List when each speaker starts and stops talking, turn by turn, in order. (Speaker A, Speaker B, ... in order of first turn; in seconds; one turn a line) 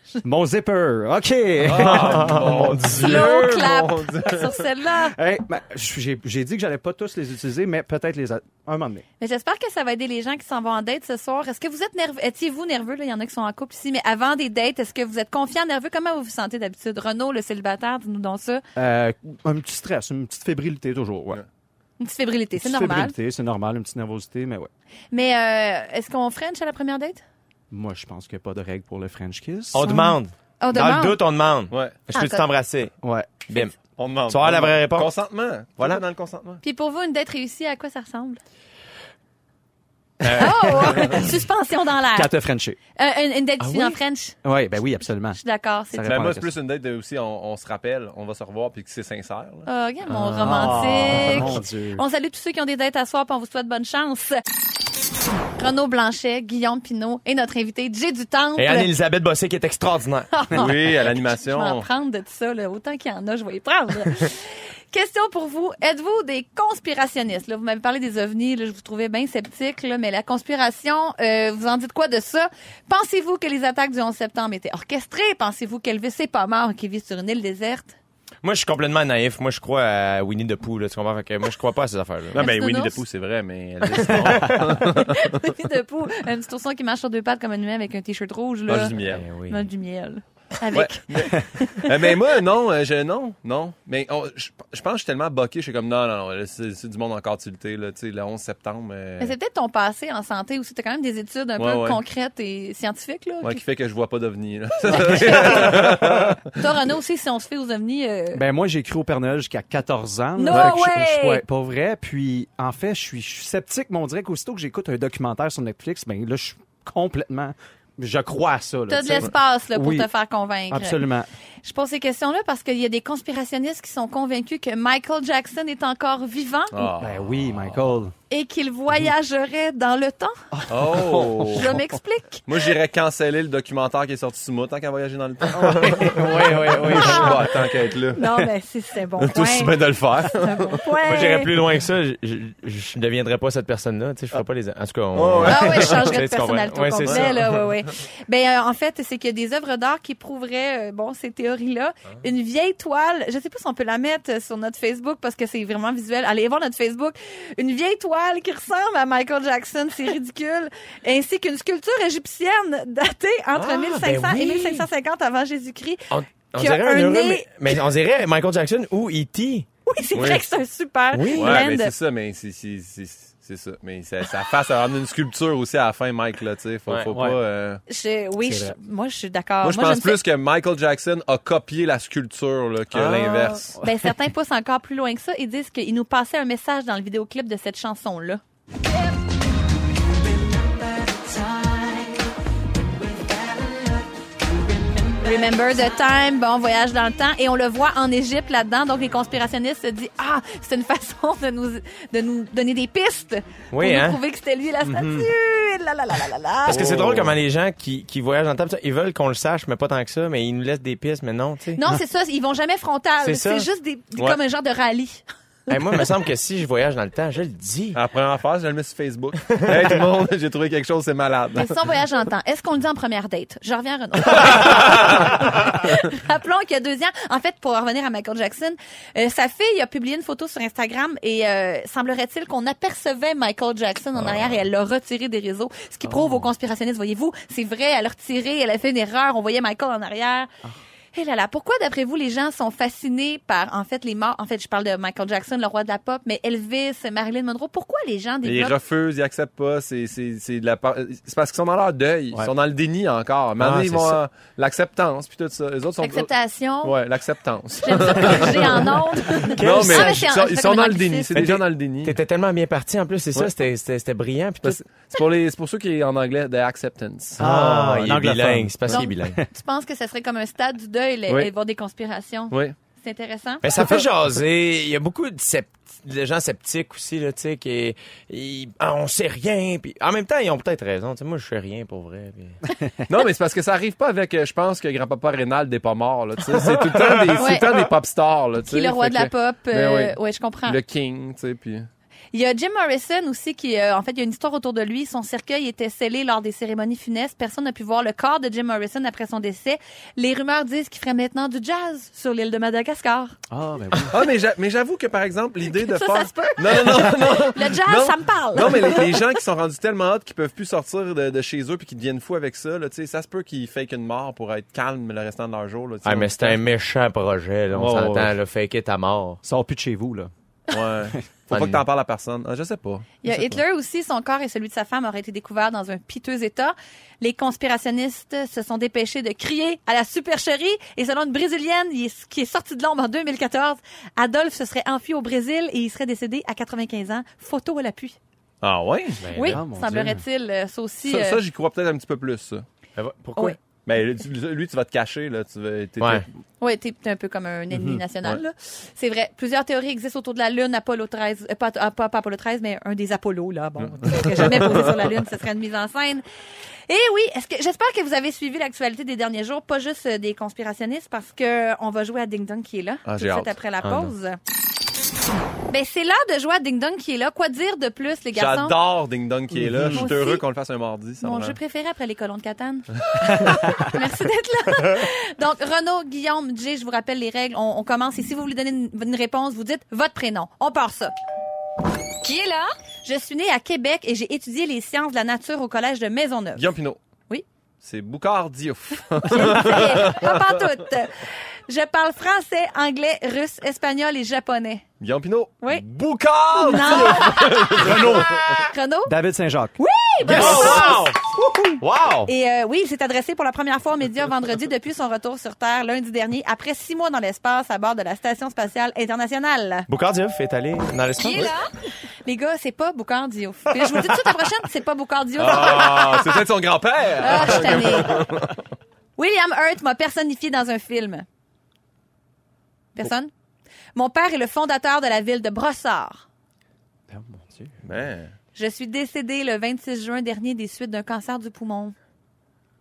Speaker A: 0.2-2.8
Speaker B: 1.6-4.5
Speaker C: 1.8-3.4
Speaker D: 2.9-5.2
Speaker A: 5.0-9.0
Speaker D: 9.2-18.6
Speaker A: 18.8-21.4
Speaker D: 22.0-23.1
Speaker A: 22.6-24.7
Speaker D: 25.1-27.2
Speaker A: 27.7-29.9
Speaker C: 29.7-32.9
Speaker D: 29.9-31.2
Speaker B: 31.7-32.0
Speaker D: 32.1-32.5
Speaker A: 33.0-33.5
Speaker C: 33.5-33.8
Speaker B: 34.0-36.6
Speaker C: 34.2-35.1
Speaker D: 36.6-38.4
Speaker C: 40.2-40.6
Speaker A: 40.2-41.1
Speaker D: 40.4-42.3
Speaker B: 40.9-41.2
Speaker A: 42.1-42.8
Speaker D: 43.0-44.4
Speaker C: 43.6-44.0
Speaker A: 44.4-45.4
Speaker D: 45.3-46.1
Speaker A: 45.9-46.5
Speaker B: 46.0-49.7
Speaker D: 49.6-54.4
Speaker C: 50.1-51.6
Speaker A: 50.4-52.0
Speaker D: 55.6-58.9
Speaker C: 58.6-60.3
Speaker D: 60.3-78.0
Speaker B: 60.5-61.9
Speaker C: 78.4-82.7
Speaker B: 82.3-85.3
Speaker D: 82.3-83.0
Speaker D: 85.0-91.9
Speaker B: 88.7-89.2
Speaker C: 89.0-89.6
Speaker B: 90.7-99.3
Speaker D: 99.2-103.6
Speaker B: 101.6-102.0
Speaker B: 103.4-106.4
Speaker D: 104.9-105.7
Speaker A: 104.9-105.7
Speaker D: 106.5-108.4
Speaker A: 108.3-120.1
Speaker D: 110.4-111.4
Speaker D: 118.9-121.1
Speaker A: 120.7-121.3
Speaker D: 121.6-126.9
Speaker B: 126.7-127.2
Speaker A: 127.0-128.1
Speaker D: 128.3-130.3
Speaker A: 130.5-131.7
Speaker B: 130.7-131.8
Speaker D: 131.5-132.5
Speaker B: 132.5-138.2
Speaker A: 135.5-136.5
Speaker C: 135.9-137.5
Speaker D: 136.8-141.5
Speaker B: 139.2-140.9
Speaker C: 141.0-147.6
Speaker B: 145.1-146.2
Speaker D: 145.4-167.8
Speaker C: 163.5-164.9
Speaker C: 166.1-169.7
Speaker D: 169.9-171.9
Speaker B: 170.1-170.5
Speaker C: 171.1-171.6
Speaker B: 171.3-177.8
Speaker C: 176.9-177.2
Speaker D: 177.9-180.2
Speaker A: 178.4-178.8
Speaker B: 179.6-183.7
Speaker C: 182.9-183.6
Speaker D: 183.8-188.4
Speaker D: 195.2-206.9
Speaker C: 203.7-204.2
Speaker A: 204.9-205.2
Speaker C: 206.7-211.8
Speaker B: 206.7-207.4
Speaker D: 211.8-215.2
Speaker C: 213.2-213.7
Speaker C: 215.7-218.0
Speaker B: 217.9-221.8
Speaker D: 221.5-240.5
Speaker C: 234.2-234.5
Speaker D: 241.1-248.8
Speaker B: 248.4-258.9
Speaker C: 253.6-254.2
Speaker D: 256.0-257.0
Speaker D: 257.8-261.5
Speaker C: 259.5-260.2
Speaker B: 259.6-262.2
Speaker C: 262.0-264.8
Speaker B: 264.6-267.4
Speaker A: 267.4-269.5
Speaker C: 267.4-269.4
Speaker D: 268.9-273.9
Speaker B: 272.5-272.8
Speaker C: 273.6-282.6
Speaker B: 283.1-291.9
Speaker D: 287.4-287.8
Speaker D: 288.6-290.8
Speaker D: 292.3-303.4
Speaker A: 303.5-304.1
Speaker B: 304.1-316.6
Speaker D: 305.7-309.1
Speaker C: 316.0-319.4
Speaker B: 317.7-318.4
Speaker A: 319.4-320.3
Speaker B: 320.7-323.5
Speaker C: 321.5-321.8
Speaker D: 323.2-338.2
Speaker B: 338.6-339.2
Speaker C: 339.2-339.6
Speaker D: 339.3-341.4
Speaker A: 339.4-340.2
Speaker B: 341.0-342.6
Speaker C: 343.0-343.6
Speaker B: 343.9-346.3
Speaker C: 346.0-346.2
Speaker D: 346.6-356.2
Speaker A: 347.7-348.0
Speaker B: 353.8-354.9
Speaker D: 356.9-364.4
Speaker B: 363.0-363.5
Speaker C: 363.8-364.1
Speaker D: 365.7-368.8
Speaker B: 368.3-371.6
Speaker D: 369.9-370.4
Speaker D: 371.2-381.1
Speaker D: 382.2-386.7
Speaker B: 386.6-387.0
Speaker B: 387.8-390.4
Speaker D: 389.2-394.9
Speaker B: 395.0-398.4
Speaker D: 396.6-398.1
Speaker A: 397.8-398.3
Speaker C: 398.2-398.7
Speaker D: 398.7-399.1
Speaker A: 399.1-399.8
Speaker D: 399.8-401.1
Speaker C: 400.2-401.2
Speaker A: 400.4-400.8
Speaker C: 401.8-402.3
Speaker D: 402.2-409.9
Speaker C: 409.9-411.5
Speaker D: 411.2-411.7
Speaker D: 412.2-416.4
Speaker B: 415.4-418.6
Speaker D: 417.2-418.2
Speaker D: 419.2-421.3
Speaker D: 422.9-423.3
Speaker D: 423.9-426.3
Speaker A: 427.1-427.7
Speaker B: 427.8-428.3
Speaker D: 428.6-431.9